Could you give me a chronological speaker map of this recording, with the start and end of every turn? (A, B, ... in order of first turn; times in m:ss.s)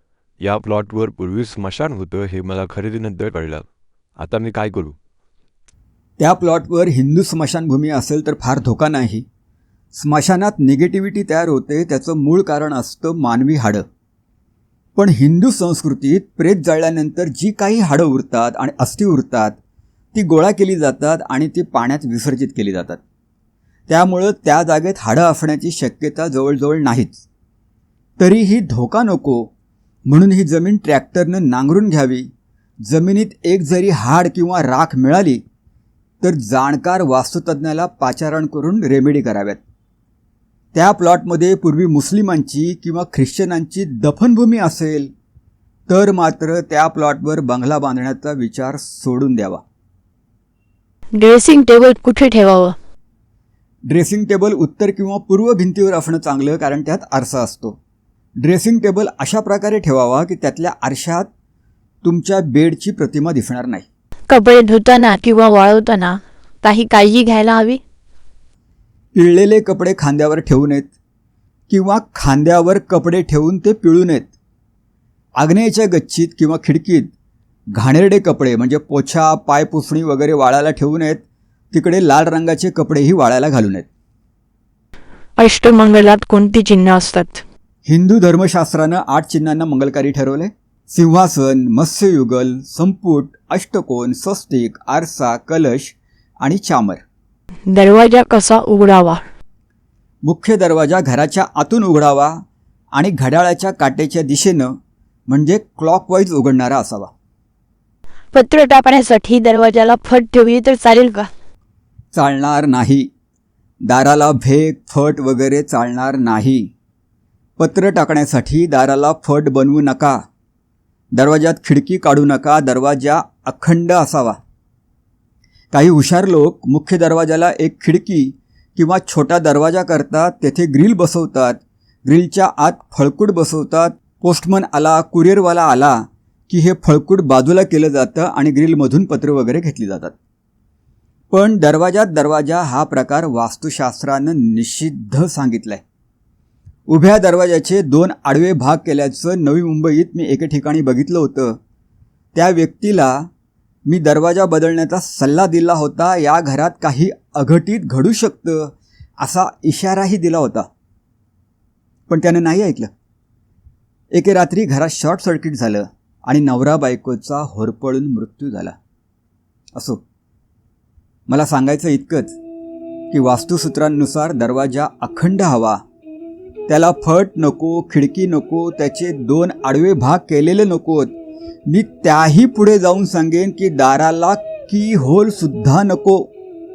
0:00.4-0:05.0 A
0:06.2-0:09.2 B
0:09.9-0:13.8 B
0:15.0-0:19.6 B
0:20.1-0:23.0 B
0:23.9-0:27.2 B
0:28.2-0:29.5 B
0:30.1-0:32.3 B
0:32.9-0:35.4 B
0:36.2-0:39.6 B
0:40.7-0:45.1 B
0:45.9-0:49.6 B
0:51.2-0:52.8 C
0:53.9-0:57.8 B
0:58.4-1:01.3 B
1:02.0-1:03.9 B
1:04.3-1:07.8 C
1:09.2-1:10.9 B
1:11.7-1:14.3 B
1:15.4-1:17.1 B
1:17.7-1:23.9 B
1:25.4-1:27.4 C
1:27.9-1:37.0 B
1:37.7-1:39.2 C
1:40.2-1:42.4 B
1:42.9-1:44.8 B
1:45.3-1:47.1 B
1:48.3-1:51.3 C
1:52.1-1:53.1 B
1:53.9-1:56.7 B
1:57.6-2:00.2 B
2:01.1-2:04.4 B
2:05.7-2:20.1 B
2:21.3-2:25.8 B
2:26.9-2:31.6 B
2:32.4-2:33.3 B
2:33.9-2:40.7 B
2:42.1-2:42.9 B
2:44.1-2:48.8 B
2:49.8-2:50.0 B
2:51.3-2:52.3 B
2:53.1-2:55.8 B
2:56.7-3:01.1 B
3:01.7-3:06.3 B